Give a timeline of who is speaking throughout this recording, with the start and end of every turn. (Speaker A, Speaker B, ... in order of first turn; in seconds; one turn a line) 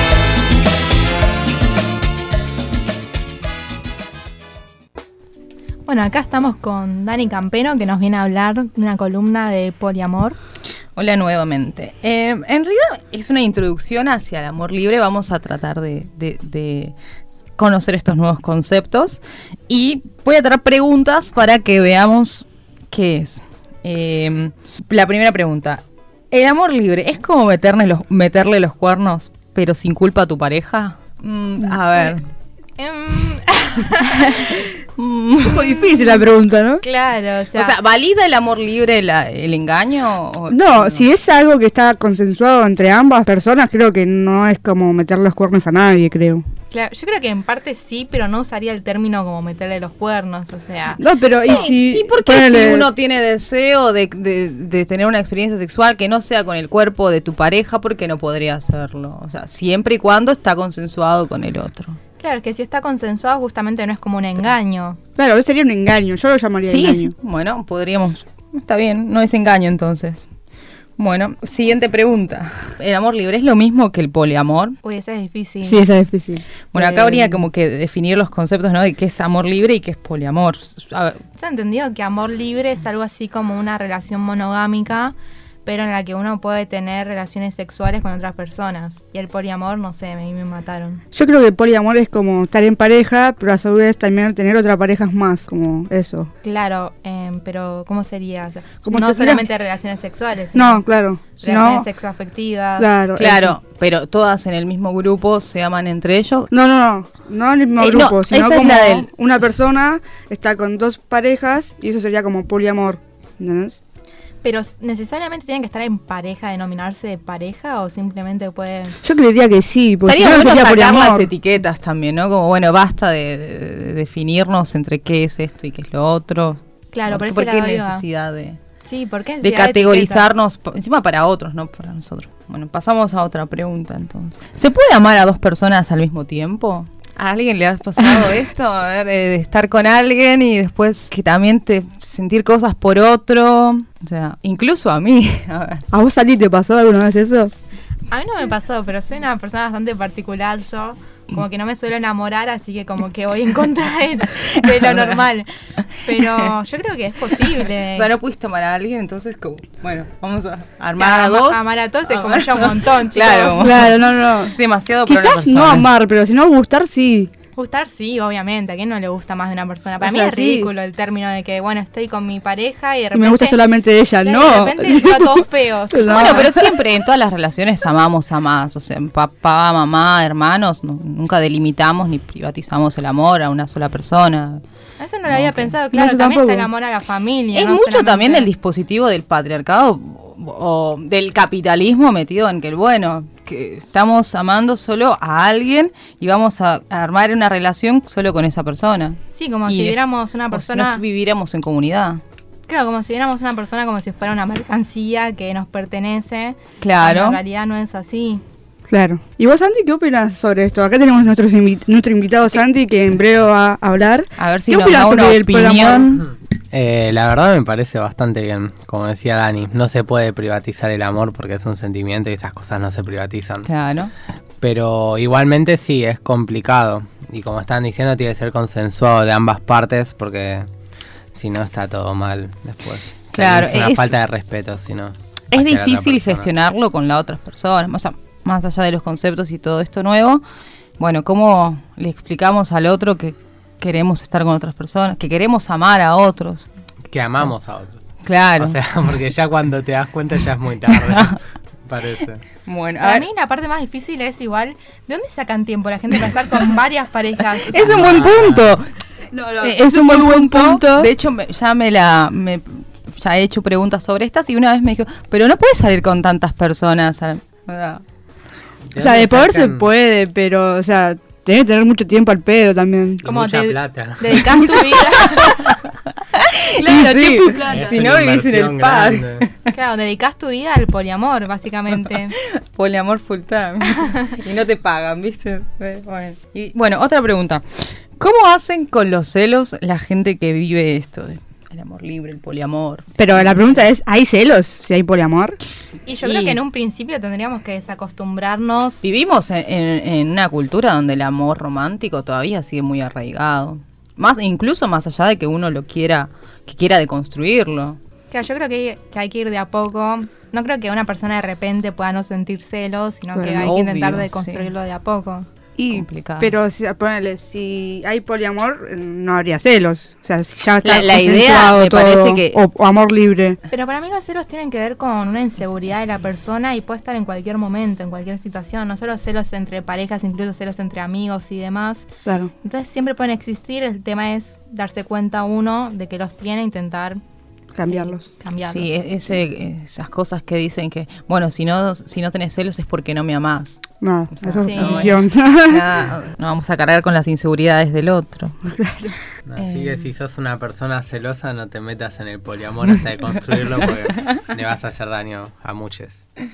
Speaker A: 5.8-10.4
Speaker B: 10.9-16.9
Speaker B: 17.6-32.2
Speaker A: 32.8-34.3
Speaker B: 34.2-35.8
Speaker C: 35.4-36.8
Speaker A: 36.8-37.7
Speaker B: 37.5-41.1
Speaker C: 40.5-46.4
Speaker A: 46.7-51.0
Speaker C: 51.0-52.9
Speaker B: 51.4-62.0
Speaker A: 62.2-65.0
Speaker C: 65.2-67.1
Speaker B: 66.6-70.2
Speaker B: 71.0-74.8
Speaker A: 74.8-75.8
Speaker C: 75.6-77.4
Speaker B: 76.7-81.2
Speaker A: 81.4-91.0
Speaker C: 91.1-96.3
Speaker A: 96.4-100.8
Speaker C: 98.8-99.5
Speaker C: 100.5-101.9
Speaker A: 101.4-102.9
Speaker C: 102.8-103.6
Speaker B: 103.1-106.5
Speaker C: 106.5-113.8
Speaker B: 107.8-109.1
Speaker A: 114.4-119.0
Speaker C: 119.0-121.3
Speaker B: 120.0-128.6
Speaker A: 126.9-128.0
Speaker A: 128.8-130.3
Speaker B: 129.4-145.8
Speaker C: 145.9-147.5
Speaker A: 148.1-155.5
Speaker B: 154.8-155.1
Speaker A: 156.0-158.1
Speaker B: 156.1-156.5
Speaker B: 157.9-165.9
Speaker A: 161.0-163.7
Speaker C: 163.5-164.5
Speaker C: 165.1-167.3
Speaker A: 167.5-173.6
Speaker C: 170.0-170.7
Speaker C: 173.1-176.7
Speaker A: 174.2-176.5
Speaker B: 176.1-184.6
Speaker A: 185.0-188.5
Speaker B: 185.3-185.7
Speaker C: 185.9-186.7
Speaker B: 187.5-202.2
Speaker A: 199.3-201.0
Speaker A: 202.7-208.4
Speaker B: 206.8-207.4
Speaker C: 208.9-216.1
Speaker B: 214.4-216.3
Speaker D: 216.7-223.7
Speaker B: 223.7-224.1
Speaker D: 224.6-230.7
Speaker D: 231.3-236.5
Speaker B: 233.3-234.1
Speaker B: 235.5-240.4
Speaker B: 241.0-246.7
Speaker D: 247.1-248.0
Speaker B: 248.2-248.8
Speaker D: 248.6-252.4
Speaker B: 250.9-251.4
Speaker B: 252.6-253.3
Speaker A: 253.0-258.1
Speaker B: 257.7-258.9
Speaker D: 257.8-258.8
Speaker C: 259.3-261.1
Speaker B: 259.6-268.0
Speaker D: 268.9-269.9
Speaker C: 269.0-273.2
Speaker D: 273.2-274.6
Speaker A: 273.2-275.7
Speaker B: 274.7-279.6
Speaker C: 276.8-277.9
Speaker D: 277.7-279.4
Speaker A: 279.7-282.3
Speaker B: 282.6-287.6
Speaker B: 288.2-293.9
Speaker C: 293.2-295.6
Speaker A: 296.0-299.0
Speaker B: 296.2-296.6
Speaker B: 299.0-308.0
Speaker A: 308.3-315.5
Speaker C: 313.3-313.7
Speaker B: 313.5-314.7
Speaker C: 315.8-323.6
Speaker B: 315.9-316.5
Speaker B: 320.8-322.6
Speaker A: 323.7-332.1
Speaker C: 332.2-332.5
Speaker A: 332.6-337.2
Speaker C: 337.7-338.3
Speaker A: 337.9-339.1
Speaker B: 338.6-348.5
Speaker C: 344.0-345.9
Speaker A: 344.5-345.1
Speaker C: 348.6-349.1
Speaker D: 349.4-356.2
Speaker B: 349.6-350.1